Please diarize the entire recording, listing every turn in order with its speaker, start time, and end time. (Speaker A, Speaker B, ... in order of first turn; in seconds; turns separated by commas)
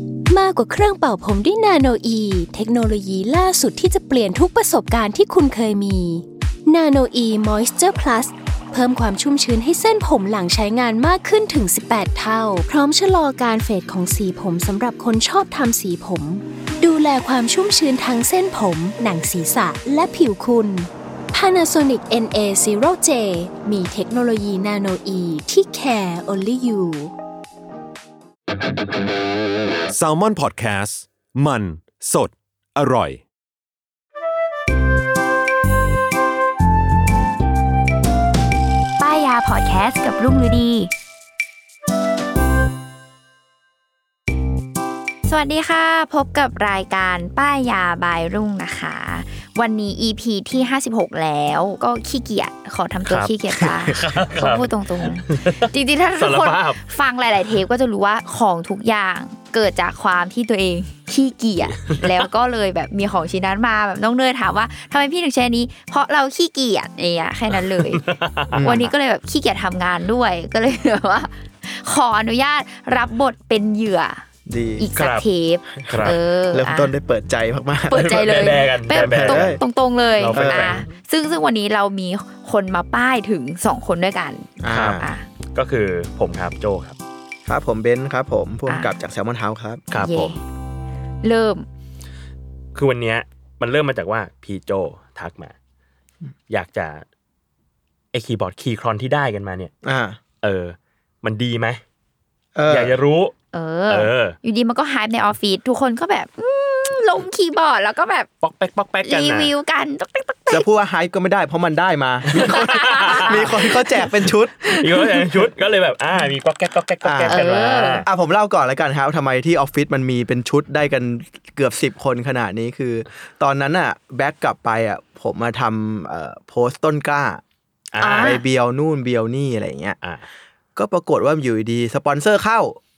Speaker A: 0.3-27.1, Speaker B: 29.9-33.2, Speaker C: 39.0-40.9, Speaker C: 45.3-68.0, Speaker D: 53.1-56.8, Speaker D: 67.6-68.9, Speaker E: 68.5-68.9, Speaker C: 68.6-74.2, Speaker E: 74.5-74.9, Speaker C: 74.8-76.9, Speaker D: 75.0-75.2, Speaker E: 75.7-78.2, Speaker D: 75.9-76.2, Speaker C: 77.9-85.3, Speaker D: 77.9-79.6, Speaker E: 79.0-79.6, Speaker D: 80.2-80.9, Speaker E: 80.3-80.8, Speaker E: 84.6-85.1, Speaker D: 84.7-85.0, Speaker D: 85.5-87.0, Speaker E: 87.5-89.9, Speaker C: 88.7-89.0, Speaker D: 89.9-90.3, Speaker C: 90.0-90.4, Speaker C: 91.2-91.7, Speaker D: 92.8-95.5, Speaker D: 96.5-97.0, Speaker D: 98.1-99.7, Speaker E: 99.8-100.2, Speaker D: 100.4-101.8, Speaker E: 102.5-103.0, Speaker D: 102.7-103.3, Speaker C: 103.5-108.3, Speaker D: 103.9-104.4, Speaker D: 108.4-109.5, Speaker C: 109.0-110.7, Speaker E: 110.5-114.6, Speaker D: 112.3-113.5, Speaker C: 112.3-115.3, Speaker D: 114.7-118.1, Speaker E: 117.0-117.4, Speaker C: 117.3-118.1, Speaker E: 118.0-127.4, Speaker D: 127.9-128.4, Speaker C: 128.0-128.4, Speaker E: 128.2-130.0, Speaker E: 130.8-132.8